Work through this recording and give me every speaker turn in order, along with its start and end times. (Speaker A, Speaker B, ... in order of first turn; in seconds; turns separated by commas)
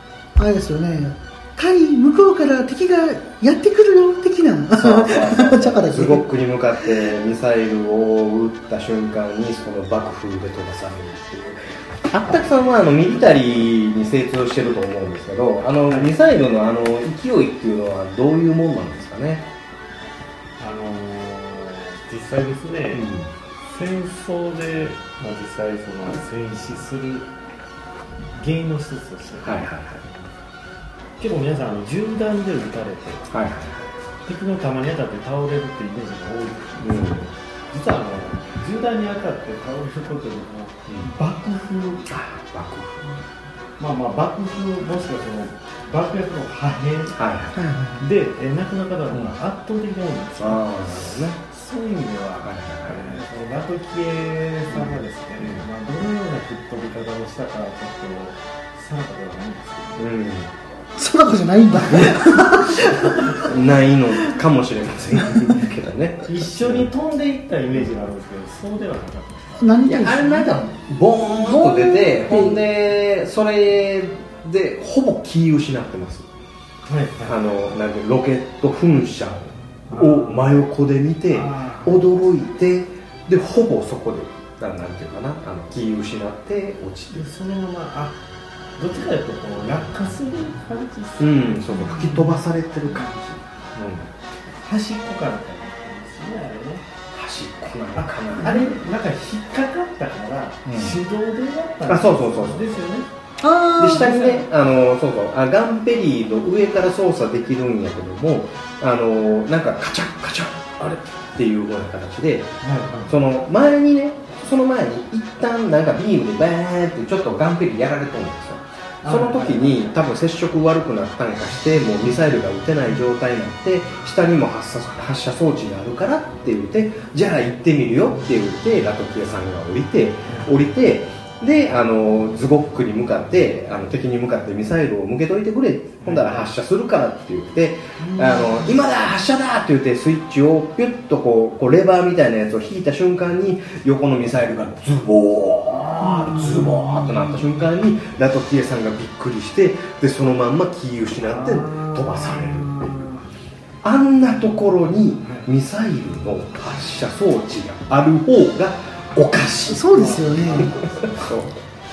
Speaker A: 0.4-6.3, Speaker B: 4.7-19.5, Speaker C: 20.6-23.1, Speaker B: 22.9-23.3, Speaker C: 23.7-27.3, Speaker C: 28.4-29.6, Speaker B: 29.4-30.1, Speaker C: 31.2-33.2, Speaker B: 33.3-34.0, Speaker C: 34.3-42.0, Speaker B: 36.8-37.3, Speaker B: 42.1-43.0, Speaker C: 43.8-47.1, Speaker B: 47.1-47.6, Speaker A: 47.5-48.0, Speaker C: 48.0-50.6, Speaker B: 50.4-51.4, Speaker C: 51.5-60.0, Speaker B: 52.4-53.2, Speaker B: 54.7-55.6, Speaker B: 60.0-60.6, Speaker A: 61.0-63.5, Speaker B: 61.9-62.3, Speaker B: 63.3-66.9, Speaker C: 66.3-69.6, Speaker A: 69.6-70.5, Speaker B: 69.8-76.3, Speaker A: 71.5-72.6, Speaker C: 76.9-77.4, Speaker B: 77.2-87.3, Speaker C: 79.9-80.5, Speaker C: 81.3-81.9, Speaker C: 87.2-88.1, Speaker C: 88.8-91.6, Speaker B: 91.2-94.1, Speaker C: 94.6-96.8, Speaker B: 97.1-98.8, Speaker C: 98.0-103.1, Speaker A: 98.4-98.7, Speaker B: 100.7-101.0, Speaker B: 101.9-102.8, Speaker A: 103.4-104.2, Speaker B: 103.8-112.5, Speaker C: 104.0-104.4, Speaker C: 112.6-113.1, Speaker B: 113.1-153.1, Speaker C: 119.0-119.6, Speaker C: 136.1-136.4, Speaker A: 146.0-147.1, Speaker C: 151.4-153.2, Speaker B: 153.8-161.6, Speaker A: 159.7-160.7, Speaker C: 160.2-160.6